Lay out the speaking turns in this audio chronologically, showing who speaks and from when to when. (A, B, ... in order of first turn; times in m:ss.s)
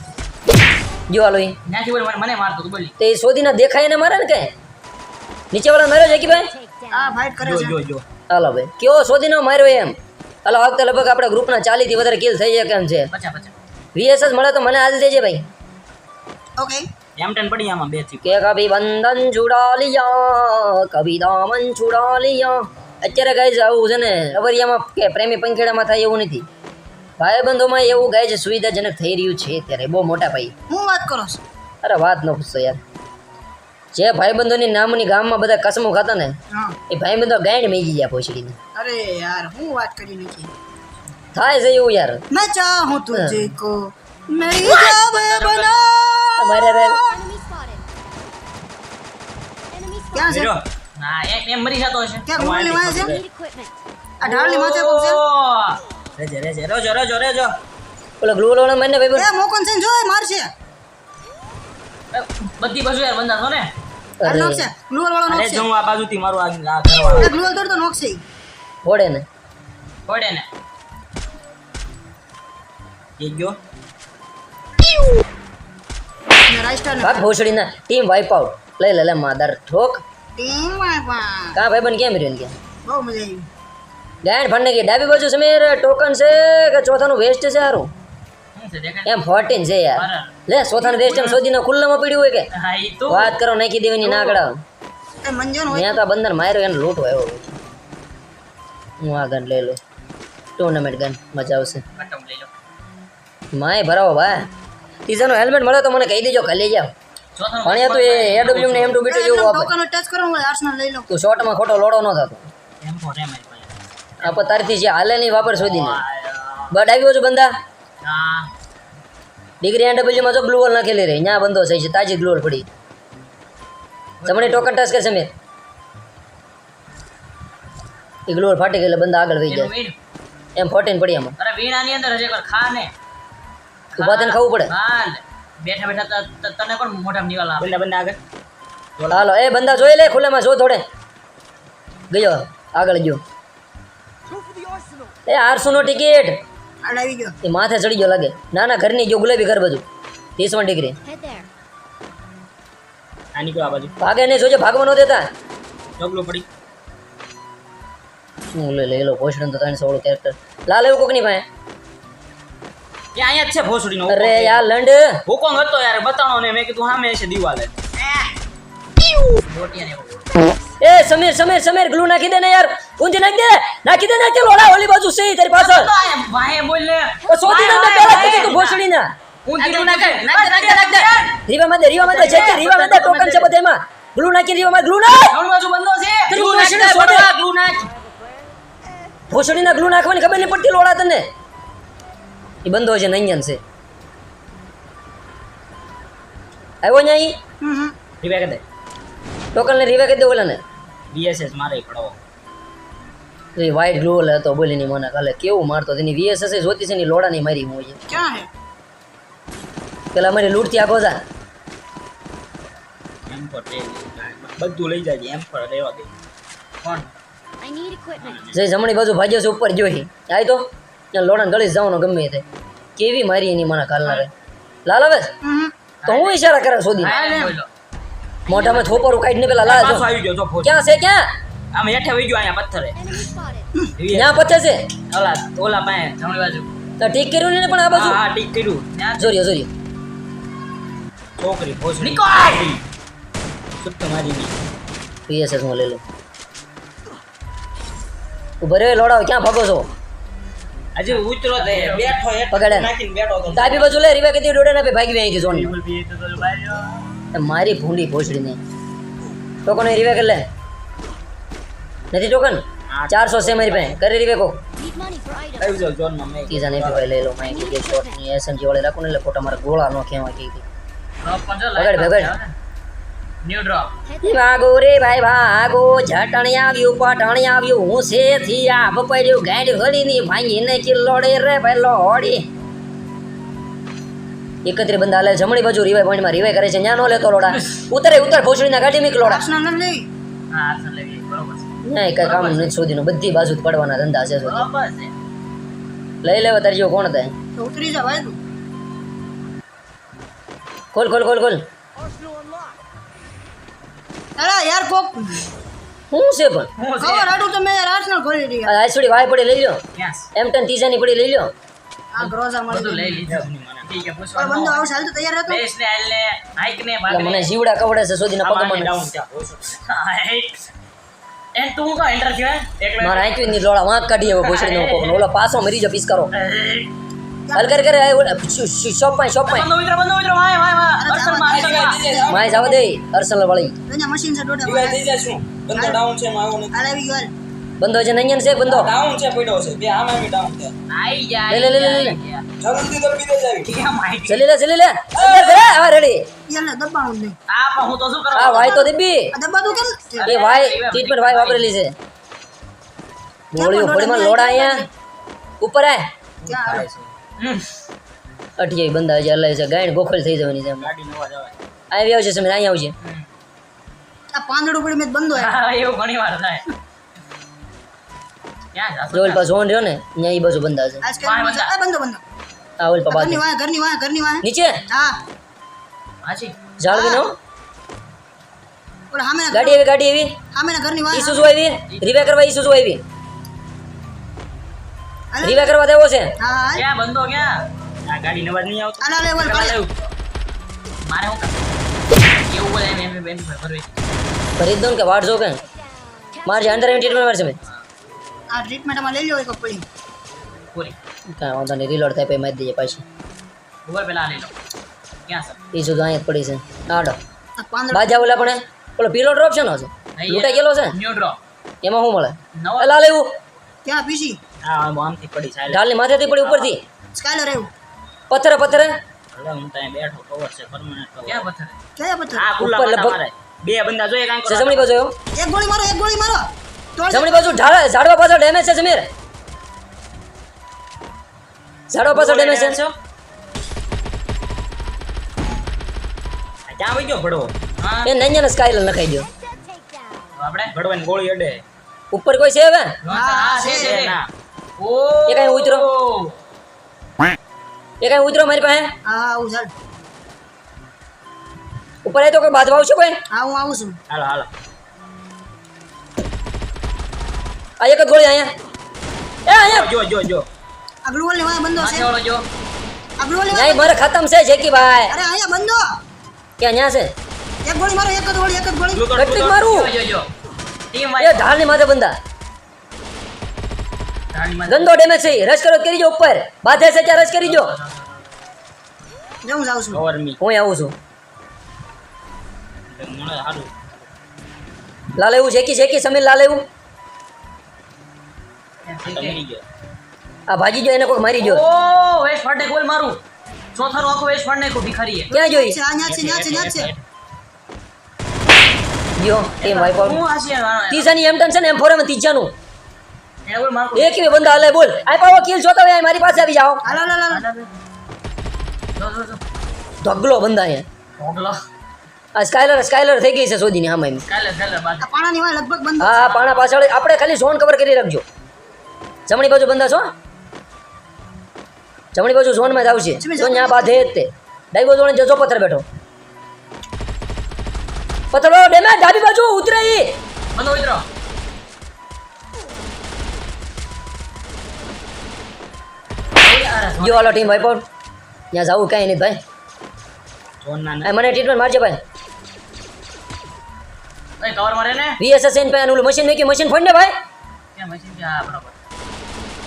0:01.1-0:01.6 A
0:01.7-0:02.9 B
0:03.0-0:04.5 A
0:05.5-0:06.5 A
0:06.1-0:07.3 C
0:06.9-0:07.8 D
0:07.4-0:08.0 E
0:08.3-0:13.1 A
0:13.1-0:13.5 B
0:13.9-0:15.5 A
0:16.6-0:16.9 D
0:17.2-0:18.3 E
0:18.2-0:26.5 A
0:27.2-0:30.5 A
0:30.7-0:31.4 D
0:31.8-0:32.8 A
0:33.9-0:36.4 A
0:36.5-0:36.8 D
0:36.9-0:38.6 A
0:38.8-0:40.5 D
0:41.3-0:42.2 A
0:42.3-0:47.2 D
0:43.1-0:43.5 A
0:44.8-0:45.7 B
0:46.4-0:47.0 A
0:47.0-0:47.8 C
0:49.7-0:50.4 C
0:50.1-0:50.6 D
0:50.3-0:50.6 E
0:51.0-0:52.3 B
0:52.3-0:53.2 D
0:52.3-0:53.2 E
0:52.8-0:53.8 C
0:54.2-0:55.2 D
0:54.2-0:55.8 B
0:56.2-0:57.6 E
0:58.2-0:59.3 A
0:59.2-1:00.5 D
1:02.1-1:03.7 B
1:04.2-1:04.7 A
1:04.2-1:05.7 D
1:05.3-1:07.3 E
1:07.1-1:08.2 D
1:08.8-1:09.2 A
1:10.1-1:10.5 B
1:13.2-1:13.6 E
1:16.5-1:17.3 D
1:17.0-1:20.0 A
1:20.4-1:21.6 D
1:21.6-1:22.6 A
1:22.8-1:23.5 D
1:24.2-1:27.9 A
1:28.6-1:29.2 B
1:29.1-1:32.5 A
1:30.0-1:31.4 B
1:32.5-1:33.3 B
1:33.1-1:34.6 A
1:34.0-1:34.4 B
1:35.2-1:36.0 D
1:35.7-1:37.6 A
1:39.0-1:39.8 A
1:40.6-1:41.8 A
1:42.0-1:42.5 B
1:43.5-1:44.4 A
1:45.1-1:46.9 A
1:47.4-1:49.0 B
1:47.6-1:49.7 A
1:49.1-1:51.1 D
1:51.1-1:52.5 A
1:52.8-1:53.7 E
1:54.2-1:54.5 B
1:54.2-1:56.0 A
1:55.6-1:56.7 B
1:56.7-1:57.5 A
1:58.0-1:58.5 B
1:59.6-2:02.7 A
2:04.2-2:04.7 B
2:04.2-2:05.3 A
2:08.3-2:09.7 A
2:09.5-2:10.0 B
2:10.6-2:11.4 A
2:11.4-2:12.9 B
2:13.9-2:17.7 B
2:14.0-2:14.7 A
2:17.6-2:18.2 E
2:19.0-2:19.3 E
2:19.1-2:20.8 A
2:22.1-2:23.2 A
2:25.3-2:26.4 A
2:26.8-2:27.4 D
2:27.4-2:29.8 A
2:30.4-2:31.0 A
2:31.0-2:31.5 C
2:33.3-2:34.0 E
2:34.0-2:35.3 A
2:36.0-2:36.5 E
2:38.5-2:41.5 A
2:43.2-2:44.7 E
2:44.1-2:45.2 A
2:45.3-2:47.7 E
2:49.5-2:50.3 B
2:50.8-2:55.9 A
2:55.6-2:58.8 B
2:57.3-2:59.1 A
2:59.5-3:01.4 B
2:59.6-3:00.3 E
2:59.7-3:01.1 D
3:01.5-3:05.4 A
3:02.0-3:03.5 E
3:05.3-3:07.2 B
3:06.3-3:07.3 A
3:06.3-3:07.8 E
3:09.3-3:11.3 A
3:12.6-3:13.6 A
3:16.8-3:17.4 A
3:17.6-3:18.0 D
3:18.2-3:18.6 E
3:19.5-3:20.6 A
3:21.1-3:22.2 E
3:23.6-3:28.1 A
3:28.1-3:28.5 D
3:30.1-3:31.2 A
3:33.3-3:36.1 E
3:36.8-3:37.1 B
3:37.6-3:38.5 C
3:38.2-3:38.6 E
3:38.5-3:42.4 A
3:43.0-3:44.3 A
3:44.8-3:45.3 A
3:45.4-3:45.7 D
3:46.0-3:46.4 B
3:46.0-3:47.2 A
3:47.0-3:47.7 B
3:47.0-3:47.6 D
3:48.5-3:49.3 C
3:48.5-3:50.1 A
3:49.6-3:50.8 E
3:50.6-3:51.3 A
3:51.7-3:53.0 E
3:53.0-3:53.9 C
3:54.0-3:54.4 E
3:54.1-3:54.8 A
3:55.1-3:56.2 E
3:56.2-3:56.7 B
3:57.0-3:58.2 A
3:57.9-3:58.8 E
3:58.9-3:59.3 B
3:59.2-3:59.7 A
4:01.4-4:02.8 E
4:02.0-4:02.7 B
4:03.8-4:04.5 E
4:05.3-4:06.0 A
4:08.6-4:09.9 A
4:11.0-4:14.0 E
4:11.1-4:12.2 B
4:12.5-4:12.9 A
4:13.5-4:15.7 A
4:15.5-4:17.0 E
4:17.3-4:18.6 A
4:19.6-4:20.4 A
4:22.1-4:24.6 A
4:22.9-4:24.0 E
4:24.8-4:26.0 C
4:25.6-4:27.1 E
4:26.5-4:30.6 A
4:27.4-4:28.2 C
4:31.2-4:32.5 B
4:31.8-4:32.4 A
4:33.4-4:33.9 B
4:34.0-4:34.6 C
4:34.2-4:42.5 A
4:44.6-4:49.4 A
4:49.2-4:50.1 D
4:50.5-4:51.7 B
4:51.8-4:54.7 A
4:52.2-4:52.7 B
4:54.4-4:55.1 B
4:56.2-4:57.3 A
4:57.5-4:58.4 D
5:00.9-5:01.6 A
5:04.4-5:05.5 D
5:06.1-5:06.7 A
5:06.8-5:07.3 B
5:07.0-5:08.7 D
5:08.6-5:09.8 A
5:10.0-5:10.3 B
5:10.4-5:11.5 A
5:12.1-5:13.3 D
5:12.2-5:14.8 B
5:13.2-5:14.0 E
5:14.4-5:15.6 D
5:15.5-5:17.5 B
5:17.1-5:19.0 A
5:18.4-5:19.8 E
5:19.9-5:20.7 B
5:21.5-5:23.4 B
5:23.0-5:26.3 A
5:24.3-5:25.2 B
5:26.3-5:26.9 B
5:27.5-5:27.8 D
5:27.5-5:29.7 A
5:29.5-5:32.0 B
5:31.0-5:32.8 D
5:31.5-5:32.6 E
5:32.3-5:33.8 A
5:33.9-5:35.0 D
5:34.6-5:36.8 E
5:35.7-5:36.0 D
5:36.7-5:37.3 D
5:37.8-5:38.9 A
5:38.6-5:40.7 E
5:40.9-5:42.5 B
5:41.5-5:42.2 A
5:42.6-5:43.8 E
5:43.6-5:44.4 B
5:44.3-5:46.3 A
5:45.1-5:45.8 E
5:46.5-5:47.4 D
5:47.5-5:48.9 B
5:48.3-5:49.4 A
5:49.3-5:50.3 D
5:50.1-5:51.8 B
5:50.2-5:52.0 A
5:53.5-5:54.8 A
5:53.6-5:54.9 D
5:55.6-5:56.1 A
5:56.4-5:57.1 E
5:56.5-5:56.9 D
5:57.4-5:57.7 B
5:58.6-6:00.9 A
6:00.8-6:01.5 E
6:01.9-6:03.0 A
6:04.3-6:05.6 D
6:05.4-6:06.7 B
6:08.7-6:09.4 B
6:09.1-6:11.0 A
6:11.0-6:12.2 D
6:11.2-6:11.7 B
6:12.8-6:13.4 A
6:13.1-6:15.2 D
6:14.4-6:14.8 A
6:16.2-6:16.6 B
6:16.8-6:17.4 A
6:16.9-6:17.2 D
6:19.1-6:19.8 D
6:19.5-6:20.4 A
6:20.5-6:21.5 D
6:21.1-6:23.0 A
6:21.9-6:22.2 B
6:25.3-6:25.7 D
6:25.4-6:26.4 A
6:26.4-6:26.9 D
6:26.8-6:27.6 B
6:28.1-6:29.1 E
6:29.0-6:29.8 D
6:29.4-6:30.1 B
6:31.0-6:31.6 B
6:32.2-6:34.0 B
6:34.6-6:35.6 A
6:36.2-6:37.3 C
6:36.4-6:37.6 A
6:38.5-6:39.9 D
6:41.3-6:43.0 A
6:43.9-6:44.5 B
6:45.3-6:45.6 B
6:45.7-6:47.2 A
6:47.6-6:48.6 D
6:47.9-6:51.0 A
6:50.2-6:51.4 B
6:51.8-6:53.3 A
6:52.6-6:53.1 B
6:53.8-6:54.4 D
6:54.6-6:55.9 E
6:55.7-6:56.8 A
6:56.4-6:56.8 E
6:57.1-6:57.7 D
6:58.3-6:59.0 A
6:59.3-7:01.5 E
7:01.2-7:01.8 B
7:02.0-7:02.6 D
7:02.4-7:04.9 E
7:02.6-7:03.2 A
7:04.5-7:05.1 A
7:05.4-7:07.6 D
7:07.1-7:09.1 A
7:11.9-7:12.8 A
7:12.1-7:12.9 B
7:12.2-7:12.8 E
7:16.7-7:17.6 E
7:17.8-7:18.1 B
7:18.0-7:19.3 A
7:19.2-7:20.4 C
7:20.4-7:20.7 B
7:20.7-7:21.6 E
7:22.1-7:23.0 A
7:23.0-7:24.2 B
7:23.1-7:24.0 D
7:23.6-7:24.3 E
7:24.8-7:26.3 B
7:25.3-7:25.9 A
7:28.0-7:28.9 A
7:29.0-7:29.7 D
7:32.0-7:33.2 A
7:33.3-7:34.0 D
7:34.1-7:34.5 E
7:37.8-7:38.5 A
7:39.5-7:39.9 A
7:39.6-7:40.5 E
7:41.0-7:42.1 D
7:41.8-7:42.5 B
7:43.2-7:44.0 D
7:43.5-7:45.2 A
7:45.0-7:46.0 D
7:46.6-7:47.1 A
7:47.6-7:49.1 D
7:48.9-7:49.6 E
7:49.1-7:49.9 A
7:49.6-7:50.3 B
7:50.9-7:51.5 B
7:51.2-7:52.2 A
7:54.3-7:55.0 B
7:54.7-7:57.7 A
7:57.4-7:58.2 B
7:59.4-8:00.0 D
7:59.9-8:00.4 E
8:00.4-8:01.0 A
8:02.9-8:03.7 E
8:05.1-8:06.7 A
8:08.9-8:09.4 B
8:09.0-8:09.6 E
8:10.5-8:11.6 A
8:11.4-8:13.2 B
8:13.8-8:15.3 B
8:15.3-8:16.9 D
8:15.3-8:15.8 A
8:16.1-8:17.0 E
8:19.2-8:20.2 A
8:19.6-8:21.1 B
8:20.9-8:22.5 A
8:23.5-8:24.7 B
8:23.9-8:26.8 A
8:26.8-8:27.5 D
8:26.9-8:27.7 B
8:29.0-8:29.4 B
8:30.0-8:30.9 A
8:31.2-8:31.6 B
8:32.4-8:34.2 A
8:34.3-8:35.1 B
8:35.0-8:36.3 D
8:36.0-8:38.2 A
8:36.1-8:36.7 B
8:39.3-8:40.1 A
8:42.1-8:45.8 A
8:43.2-8:44.1 D
8:48.3-8:50.2 A
8:50.6-8:51.0 B
8:56.4-8:57.7 B
8:57.0-8:57.9 A
8:58.5-8:59.4 A
9:00.6-9:01.1 E
9:01.0-9:02.0 A
9:04.4-9:05.2 B
9:05.2-9:07.1 A
9:07.8-9:08.7 B